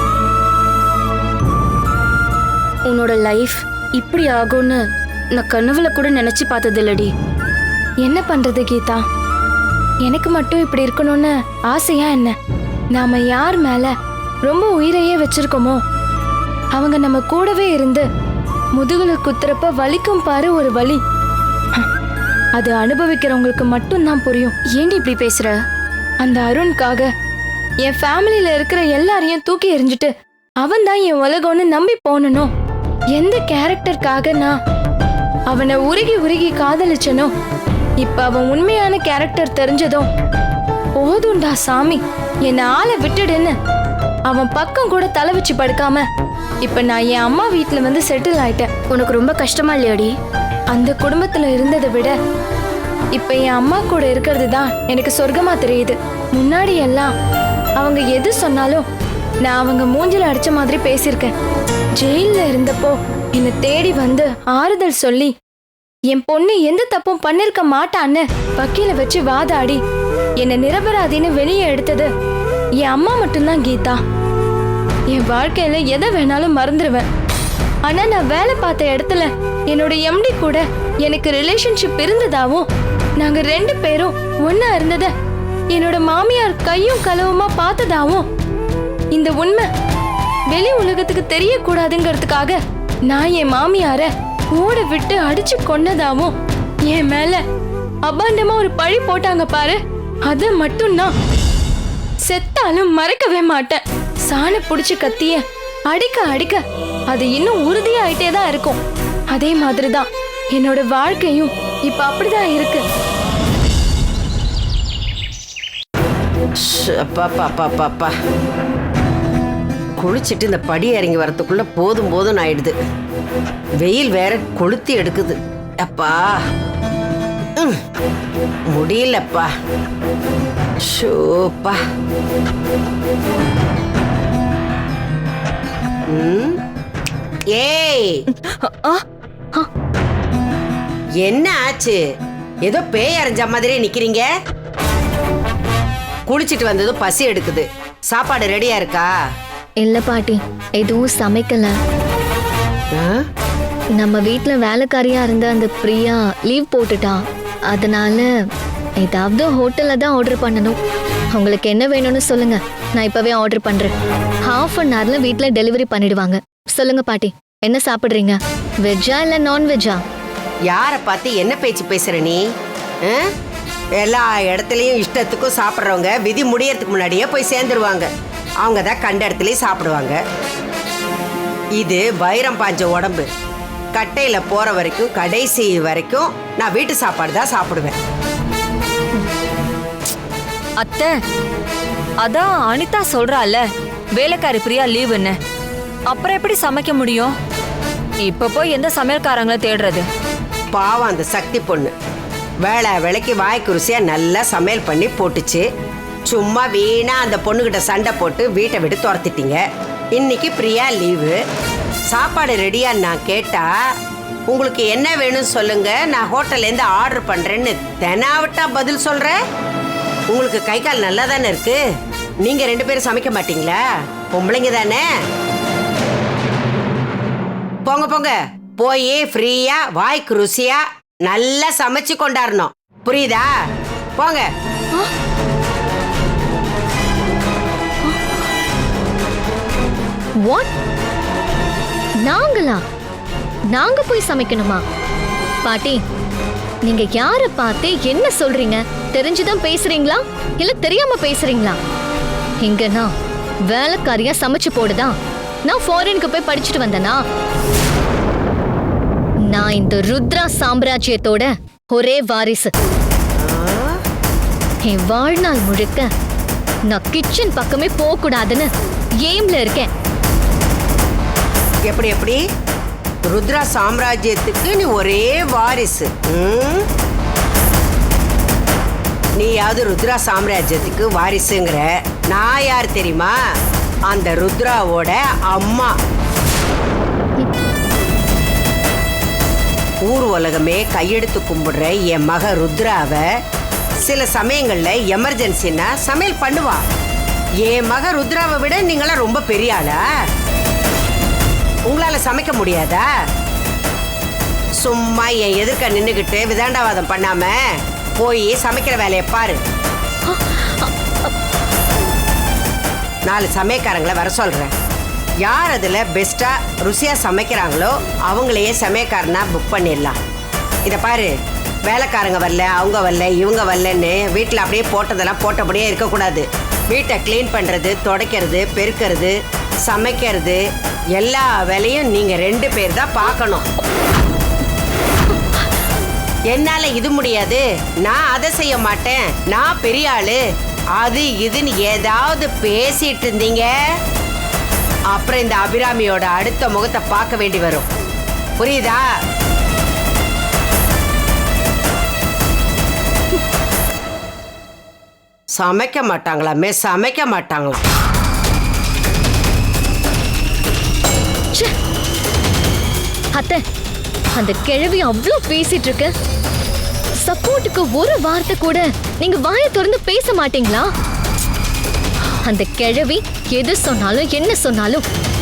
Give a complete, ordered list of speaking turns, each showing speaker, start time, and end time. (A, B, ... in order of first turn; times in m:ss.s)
0:02.9-0:04.8 A
0:05.4-0:07.1 A
0:08.0-0:09.0 B
0:10.0-0:12.4 B
0:13.0-0:13.9 B
0:14.5-0:15.8 B
0:16.8-0:18.0 B
0:18.8-0:21.0 B
0:22.6-0:24.6 B
0:24.7-0:25.6 A
0:26.2-0:27.1 B
0:27.8-0:30.1 B
0:30.6-0:32.5 B
0:33.2-0:34.6 B
0:35.5-0:37.3 B
0:38.0-0:40.1 B
0:41.0-0:43.6 B
0:44.3-0:46.0 B
0:46.6-0:48.7 B
0:48.9-0:50.1 A
0:50.7-0:52.2 B
0:53.2-0:57.1 B
0:57.8-0:58.9 B
0:59.4-1:01.3 B
1:02.0-1:05.3 B
1:06.1-1:09.8 B
1:10.4-1:12.1 B
1:12.8-1:14.0 B
1:15.1-1:17.1 B
1:17.9-1:22.7 B
1:23.2-1:25.1 B
1:25.7-1:28.3 B
1:29.1-1:29.7 B
1:30.5-1:36.3 B
1:36.9-1:37.4 B
1:38.1-1:41.1 B
1:42.3-1:48.8 B
1:49.3-1:52.8 B
1:56.6-1:58.1 C
2:00.0-2:02.8 C
2:03.8-2:06.4 C
2:08.7-2:09.5 C
2:10.9-2:11.8 C
2:16.1-2:16.6 C
2:17.6-2:18.2 C
2:18.6-2:19.0 D
2:21.2-2:22.0 C
2:22.7-2:24.3 C
2:26.3-2:29.1 C
2:29.8-2:31.7 E
2:33.0-2:33.3 C
2:34.0-2:38.3 E
2:39.0-2:40.8 E
2:41.3-2:43.9 E
2:44.5-2:50.0 E
2:50.7-2:52.4 C
2:53.0-2:53.3 C
2:54.0-2:58.1 C
2:58.6-3:00.2 C
3:01.8-3:03.3 C
3:04.0-3:08.0 C
3:10.8-3:11.1 D
3:12.2-3:13.6 D
3:14.2-3:15.4 D
3:16.1-3:17.3 D
3:18.2-3:20.0 D
3:20.7-3:21.9 C
3:22.6-3:25.7 C
3:26.3-3:29.6 C
3:30.2-3:31.4 C
3:32.1-3:33.7 C
3:34.5-3:39.4 C
3:40.3-3:41.8 C
3:42.4-3:43.8 C
3:44.3-3:45.0 C
3:47.8-3:53.5 C
3:54.2-3:54.5 C
3:58.0-3:58.3 E
4:00.4-4:00.7 E
4:02.2-4:02.8 E
4:03.7-4:04.8 E
4:05.6-4:06.0 E
4:06.9-4:11.8 E
4:12.6-4:13.1 E
4:13.7-4:15.2 E
4:15.7-4:17.2 E
4:19.5-4:22.7 E
4:23.4-4:24.0 C
4:24.9-4:26.1 E
4:26.9-4:28.7 E
4:29.2-4:29.9 E
4:31.9-4:32.4 C
4:33.3-4:36.9 C
4:39.4-4:43.3 C
4:44.1-4:46.0 C
4:50.0-4:53.3 C
4:54.0-4:56.8 C
4:57.6-5:00.0 C
5:01.9-5:03.1 C
5:04.8-5:07.6 C
5:08.2-5:09.6 C
5:10.3-5:11.3 E
5:13.3-5:14.7 C
5:15.4-5:20.2 C
5:20.9-5:21.3 C
5:21.9-5:30.6 C
5:31.2-5:33.6 C
5:36.5-5:40.4 C
5:41.0-5:43.7 C
5:45.1-5:47.9 C
5:48.6-5:49.0 C
5:55.6-5:57.8 C
6:03.4-6:03.6 E
6:04.4-6:06.1 E
6:07.2-6:10.9 E
6:12.4-6:15.0 E